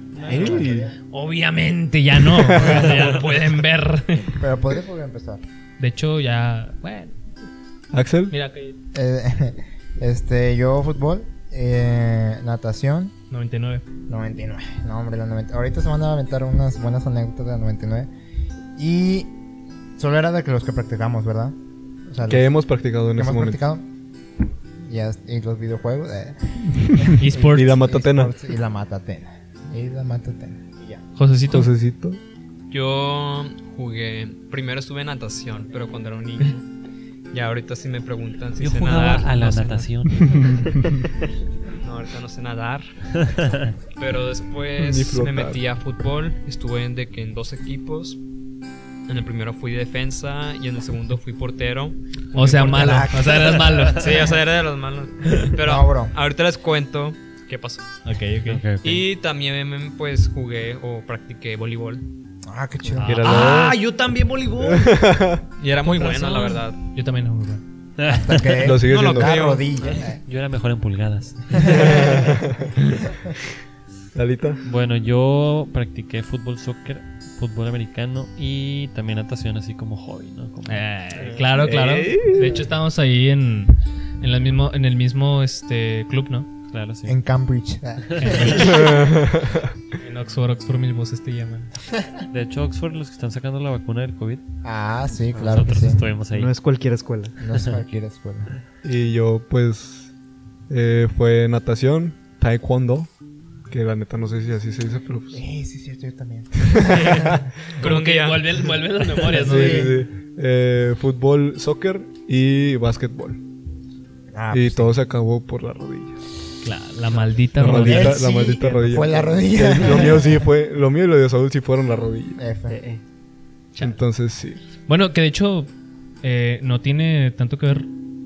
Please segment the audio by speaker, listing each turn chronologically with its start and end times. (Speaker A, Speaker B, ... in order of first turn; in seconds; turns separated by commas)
Speaker A: 0.2-0.9, Speaker B: 0.2-0.9, Speaker C: 0.3-0.6, Speaker C: 1.1-4.4, Speaker A: 2.4-2.8, Speaker B: 4.3-5.4, Speaker C: 5.8-7.2, Speaker A: 7.9-8.3, Speaker C: 8.3-8.8, Speaker B: 8.9-13.1, Speaker C: 13.3-13.8, Speaker B: 14.1-18.1, Speaker B: 18.8-19.3, Speaker B: 20.0-21.6, Speaker B: 22.1-22.5, Speaker A: 22.3-23.6, Speaker B: 23.2-23.9, Speaker B: 24.8-31.0, Speaker A: 26.9-28.3, Speaker C: 27.2-27.8, Speaker C: 31.2-31.7, Speaker A: 31.5-32.2, Speaker D: 32.7-36.6, Speaker D: 37.3-39.9, Speaker E: 38.6-40.7, Speaker A: 40.3-40.7, Speaker D: 41.8-43.4, Speaker E: 43.2-43.6, Speaker D: 44.0-48.2, Speaker A: 44.8-45.6, Speaker D: 49.1-52.0, Speaker C: 52.3-54.2, Speaker B: 52.4-53.6, Speaker A: 52.5-53.0, Speaker D: 53.9-57.9, Speaker B: 55.6-56.1, Speaker C: 58.0-58.6, Speaker E: 58.5-59.1, Speaker D: 58.8-62.0, Speaker B: 62.5-63.3, Speaker A: 63.0-63.8, Speaker C: 63.2-64.9, Speaker A: 64.6-65.5, Speaker D: 65.6-66.8, Speaker C: 65.8-67.6, Speaker E: 68.0-68.7, Speaker B: 68.1-70.2, Speaker A: 68.6-69.4, Speaker D: 68.8-70.0, Speaker E: 69.8-72.2, Speaker B: 71.6-72.0, Speaker A: 71.6-72.7, Speaker A: 74.2-74.6, Speaker E: 74.6-81.5, Speaker C: 80.7-86.5, Speaker A: 81.6-82.4, Speaker E: 86.7-87.2, Speaker B: 87.1-89.2, Speaker E: 88.1-89.0, Speaker A: 88.7-89.7, Speaker C: 90.0-91.7, Speaker E: 92.3-94.4, Speaker B: 94.6-96.0, Speaker E: 95.3-96.5, Speaker F: 95.3-97.4, Speaker B: 97.4-98.5, Speaker A: 98.8-100.1, Speaker A: 100.7-103.1, Speaker A: 103.7-105.4, Speaker B: 105.3-107.3, Speaker A: 106.7-107.4, Speaker C: 106.9-109.9, Speaker D: 107.8-108.6, Speaker A: 109.3-113.4, Speaker B: 109.4-110.0, Speaker B: 114.3-114.9, Speaker A: 114.5-116.2, Speaker C: 116.6-118.2, Speaker F: 117.1-117.5, Speaker A: 117.6-122.4, Speaker B: 117.6-120.3, Speaker B: 122.4-122.8, Speaker F: 122.7-123.0, Speaker A: 123.8-124.6, Speaker C: 124.9-125.7, Speaker C: 126.2-127.9